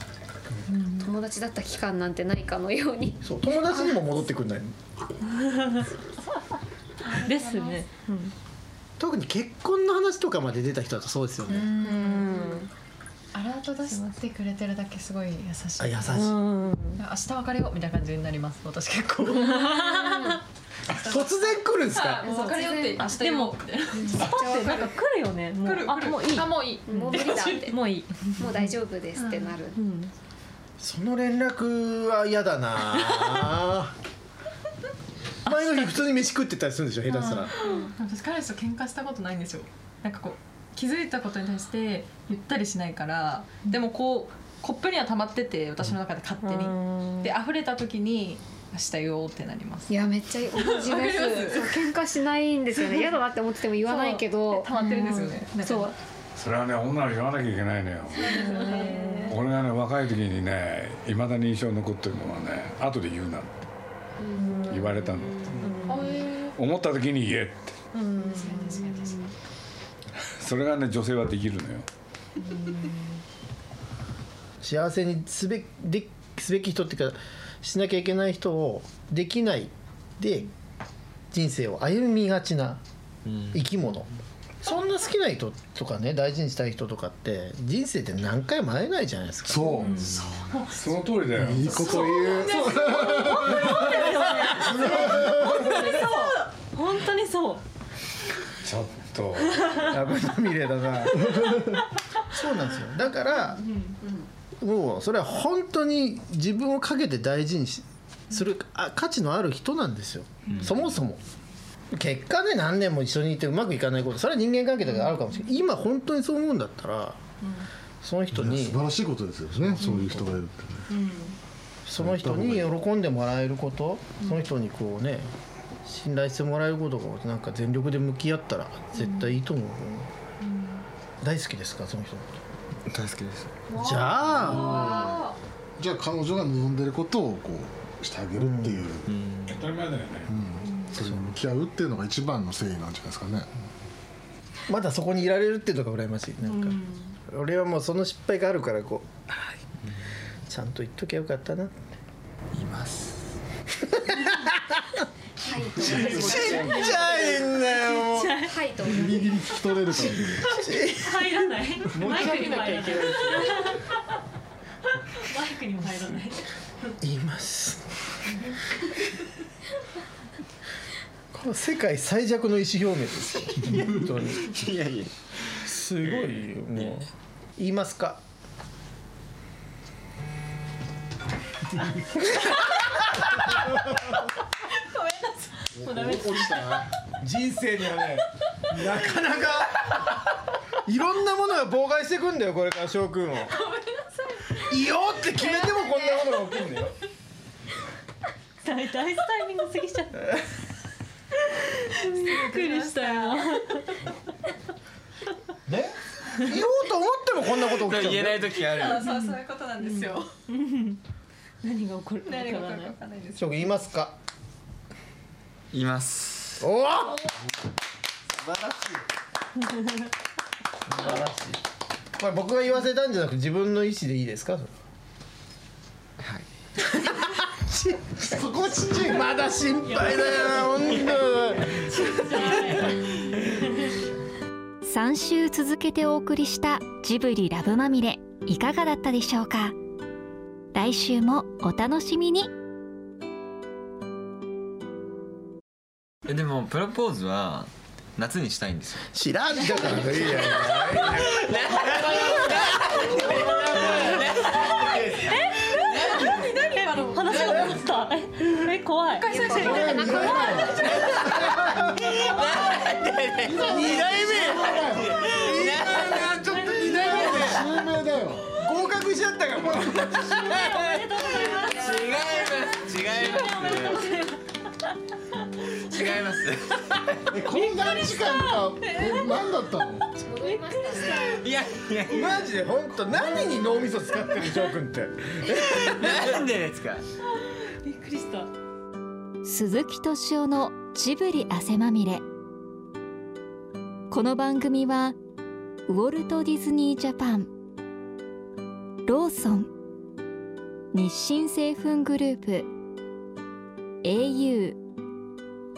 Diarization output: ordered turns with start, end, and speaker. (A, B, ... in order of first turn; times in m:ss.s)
0:00.7-0:01.1 A
0:01.0-0:04.0 B
0:03.2-0:04.7 C
0:07.0-0:07.9 D
0:07.2-0:08.3 A
0:09.0-0:11.7 C
0:11.7-0:12.6 D
0:11.8-0:12.6 A
0:12.1-0:12.3 B
0:13.3-0:16.2 D
0:13.8-0:14.2 A
0:15.8-0:16.4 C
0:16.2-0:17.0 A
0:17.0-0:20.2 D
0:19.2-0:20.4 A
0:19.8-0:20.4 B
0:20.9-0:22.3 C
0:20.9-0:25.0 D
0:22.2-0:28.7 A
0:22.2-0:23.0 B
0:24.2-0:24.7 B
0:25.6-0:27.8 D
0:26.8-0:27.8 B
0:28.4-0:29.8 B
0:29.2-0:29.5 D
0:29.7-0:30.1 A
0:30.8-0:33.9 C
0:35.4-0:37.5 C
0:35.5-0:35.8 A
0:37.2-0:49.9 D
0:46.7-0:47.3 A
0:49.9-0:56.0 B
0:50.5-0:51.8 D
0:53.8-0:55.9 D
0:56.3-0:58.5 E
0:58.1-0:59.4 D
0:58.3-0:59.4 A
0:58.7-0:58.9 B
0:59.3-1:03.6 E
1:04.2-1:04.7 B
1:04.4-1:04.9 A
1:04.7-1:05.7 E
1:05.6-1:06.2 A
1:05.8-1:06.5 D
1:06.5-1:07.8 E
1:07.9-1:08.9 A
1:08.2-1:09.1 D
1:08.3-1:09.2 B
1:10.4-1:11.8 E
1:14.6-1:20.5 C
1:21.3-1:22.8 C
1:23.2-1:23.6 F
1:23.5-1:24.1 C
1:24.6-1:29.9 C
1:29.4-1:30.5 G
1:30.0-1:30.7 D
1:30.7-1:32.3 E
1:31.3-1:34.0 G
1:32.0-1:37.6 A
1:32.2-1:36.4 D
1:34.4-1:36.0 C
1:34.6-1:35.4 G
1:38.6-1:40.0 E
1:39.8-1:43.6 C
1:44.6-1:51.2 C
1:50.5-1:50.8 F
1:51.9-1:57.2 C
1:58.0-1:58.8 C
1:58.3-2:00.9 G
1:59.5-2:00.0 C
2:01.8-2:05.3 C
2:02.0-2:02.7 G
2:05.8-2:10.1 C
2:11.2-2:12.4 C
2:12.9-2:13.5 F
2:13.7-2:15.3 D
2:13.7-2:14.9 C
2:14.3-2:15.2 G
2:15.8-2:19.1 G
2:18.4-2:18.8 C
2:19.1-2:19.6 F
2:19.4-2:20.3 E
2:20.3-2:23.5 G
2:24.7-2:29.6 C
2:26.4-2:27.1 A
2:30.5-2:31.8 C
2:32.5-2:33.2 F
2:33.8-2:35.0 C
2:35.4-2:37.5 B
2:35.8-2:38.4 C
2:35.8-2:37.0 G
2:36.0-2:37.0 A
2:36.3-2:36.6 D
2:37.7-2:38.5 A
2:38.2-2:40.2 B
2:38.8-2:40.6 G
2:39.9-2:44.0 A
2:40.5-2:41.3 C
2:41.9-2:43.6 D
2:45.1-2:46.4 A
2:47.0-2:47.9 C
2:51.3-2:54.6 C
2:53.5-2:55.1 F
2:55.6-2:58.2 C
2:56.2-2:56.9 F
3:02.0-3:04.2 C
3:04.9-3:05.3 D
3:05.7-3:06.9 G
3:05.8-3:06.8 A
3:07.2-3:10.2 C
3:10.8-3:13.6 C
3:13.8-3:14.1 D
3:14.6-3:17.0 C
3:18.6-3:20.4 A
3:22.0-3:23.9 A
3:22.0-3:23.6 D
3:25.6-3:28.6 C
3:27.6-3:29.1 F
3:28.7-3:30.3 D
3:28.8-3:31.0 A
3:31.6-3:33.0 A
3:32.2-3:33.7 D
3:33.4-3:34.2 C
3:35.7-3:36.6 F
3:36.6-3:37.3 C
3:38.4-3:38.8 C
3:40.9-3:41.6 C
3:42.2-3:44.7 C
3:46.2-3:46.4 F
3:46.8-3:52.0 C
3:48.2-3:49.3 G
3:50.1-3:50.6 A
3:51.8-3:53.1 A
3:54.8-3:59.8 H
4:00.7-4:02.5 H
4:06.2-4:09.0 F
4:09.1-4:15.4 C
4:10.6-4:15.1 F
4:14.5-4:16.3 A
4:15.7-4:17.9 D
4:17.0-4:20.3 A
4:19.1-4:21.2 D
4:19.2-4:21.0 B
4:19.5-4:21.9 G
4:20.0-4:21.9 C
4:20.9-4:21.4 F
4:22.0-4:27.6 F
4:23.4-4:28.5 G
4:23.5-4:26.0 C
4:26.4-4:27.9 A
4:28.5-4:31.0 C
4:29.6-4:30.2 G
4:30.0-4:34.4 A
4:31.7-4:34.1 F
4:35.7-4:37.3 F
4:37.3-4:40.2 G
4:37.5-4:39.6 A
4:40.2-4:41.4 B
4:40.4-4:41.4 A
4:41.2-4:42.4 F
4:42.1-4:46.2 C
4:45.5-4:47.0 F
4:47.8-4:48.5 A
4:49.4-4:52.2 H
4:54.1-4:55.2 H
4:55.9-4:57.5 H
4:59.0-4:59.7 H
5:00.9-5:02.7 H
5:04.0-5:04.8 H